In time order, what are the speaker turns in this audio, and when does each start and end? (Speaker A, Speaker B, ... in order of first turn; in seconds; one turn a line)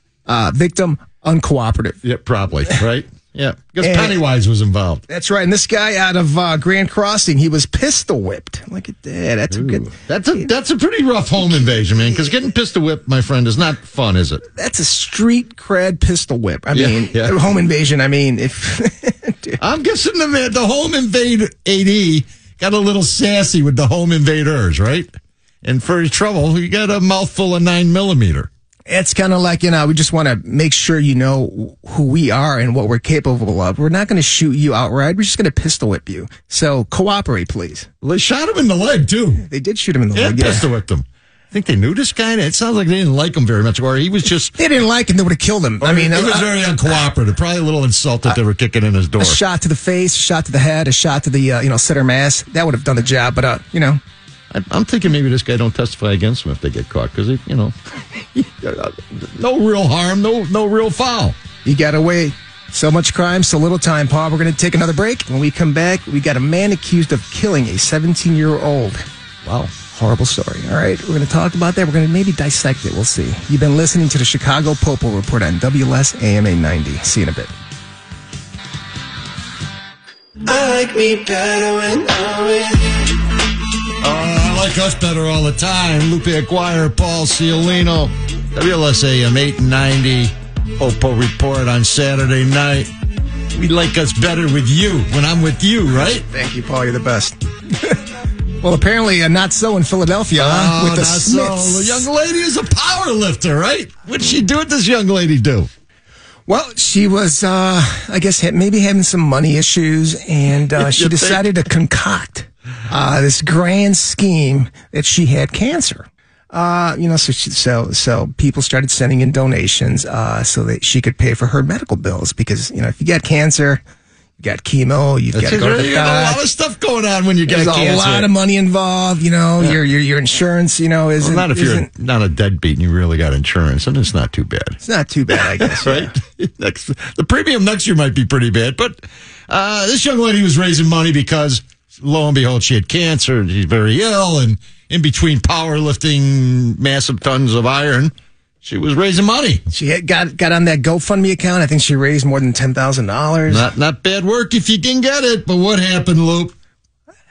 Speaker A: 0.3-2.0
Speaker B: 2.0-5.0
Speaker A: 3.8-4.2
Speaker A: 5.1-9.9
Speaker B: 9.5-14.4
Speaker A: 14.6-19.6
Speaker B: 16.7-17.4
Speaker B: 19.6-25.1
Speaker B: 25.6-28.5
Speaker A: 28.9-37.9
Speaker B: 38.0-39.5
Speaker A: 39.5-40.7
Speaker B: 40.1-44.6
Speaker A: 44.6-46.6
Speaker B: 45.8-49.4
Speaker A: 49.2-54.0
Speaker B: 54.5-61.4
Speaker A: 61.6-69.0
Speaker B: 69.5-69.7
Speaker A: 69.9-77.5
Speaker C: 80.5-82.9
Speaker B: 84.0-92.9
Speaker B: 93.5-96.2
Speaker A: 96.2-98.0
Speaker A: 98.6-102.1
Speaker B: 100.3-105.7
Speaker A: 106.5-123.8
Speaker B: 110.8-111.5
Speaker A: 124.4-126.4
Speaker B: 125.3-128.3
Speaker A: 127.5-131.9
Speaker B: 131.2-134.8
Speaker A: 134.8-136.2
Speaker B: 135.3-149.6
Speaker A: 149.7-153.7
Speaker B: 153.5-156.5